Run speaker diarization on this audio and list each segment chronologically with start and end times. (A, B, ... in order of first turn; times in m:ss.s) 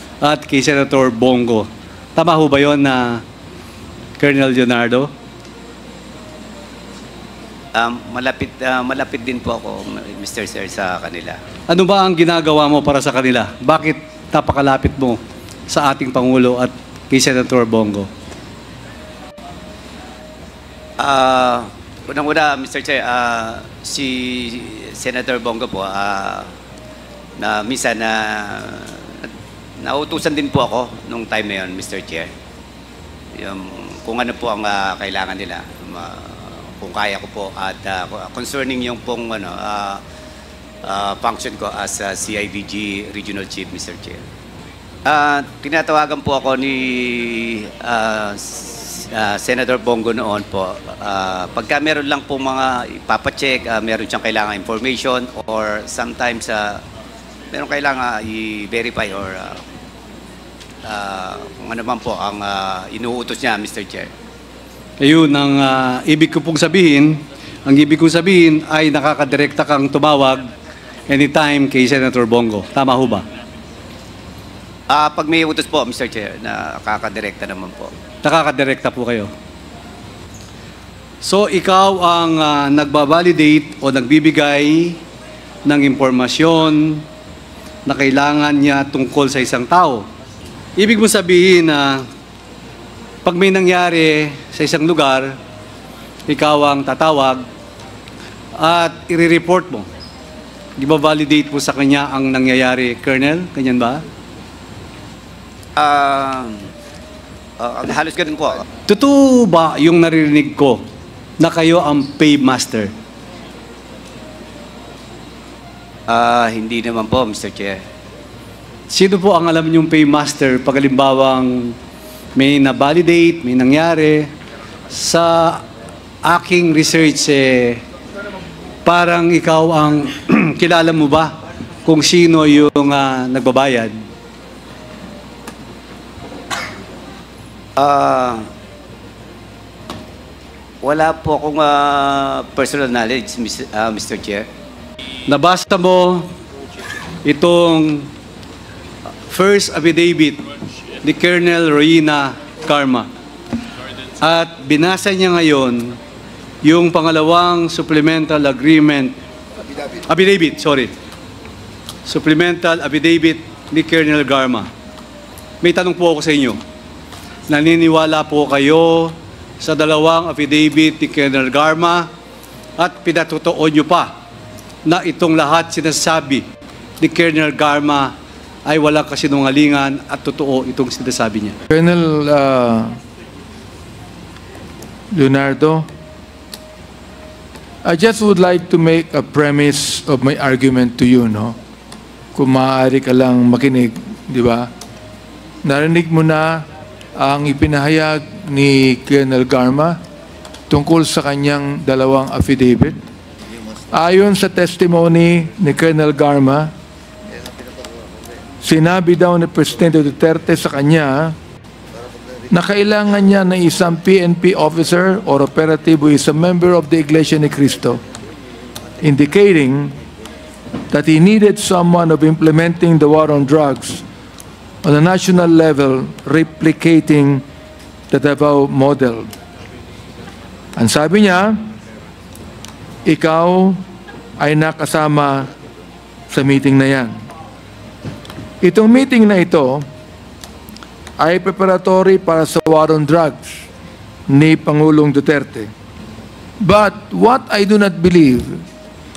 0:00.2-0:03.2 A
0:04.2-0:05.1 A
0:07.7-0:11.4 B
0:11.7-0:18.1 A
0:21.0-0:26.5 B
0:27.4-0:29.3 B
0:29.8-0:32.3 B
0:33.4-0:40.0 B
0:40.8-0:44.2 B
0:45.0-0:56.8 B
0:57.5-0:59.6 B
1:00.8-1:04.1 B
1:05.0-1:10.5 A
1:11.1-1:13.2 A
1:14.9-1:17.9 B
1:18.2-1:19.3 A
1:21.2-1:25.0 A
1:25.6-1:27.0 A
1:27.8-1:30.1 A
1:30.8-1:32.0 A
1:33.2-1:35.3 A
1:36.3-1:37.4 A
1:38.6-1:39.9 A
1:40.8-1:44.0 A
1:45.8-1:46.6 B
1:47.6-1:48.6 B
1:48.9-1:50.8 A
1:51.4-1:52.9 A
1:56.1-1:57.8 B
1:58.9-2:01.7 A
2:02.4-2:04.3 A
2:04.9-2:05.6 A
2:06.2-2:07.8 A
2:08.8-2:14.0 A
2:17.8-2:18.4 B
2:20.8-2:24.4 B
2:25.3-2:26.3 A
2:27.2-2:28.1 A
2:29.3-2:30.4 A
2:31.0-2:33.1 A
2:34.2-2:36.0 A
2:36.6-2:39.1 A
2:40.1-2:40.9 A
2:42.0-2:44.7 A
2:45.6-2:46.6 A
2:47.5-2:52.1 A
2:52.8-2:54.1 A
2:54.8-2:56.4 A
2:57.0-2:58.1 A
2:58.6-3:01.6 A
3:01.7-3:03.0 C
3:05.1-3:05.9 C
3:07.8-3:11.6 C
3:12.3-3:14.7 C
3:15.6-3:16.6 C
3:17.2-3:20.0 C
3:20.7-3:23.0 C
3:23.9-3:26.7 C
3:28.6-3:31.3 C
3:32.5-3:38.0 C
3:39.0-3:40.0 C
3:40.9-3:44.0 C
3:44.8-3:47.4 C
3:48.1-3:49.3 C
3:50.8-3:51.6 C
3:53.0-3:53.8 C
3:54.4-3:55.5 C
3:56.3-3:57.1 C
3:58.6-3:59.8 C
4:01.2-4:03.6 C
4:04.3-4:05.7 C
4:06.6-4:08.6 C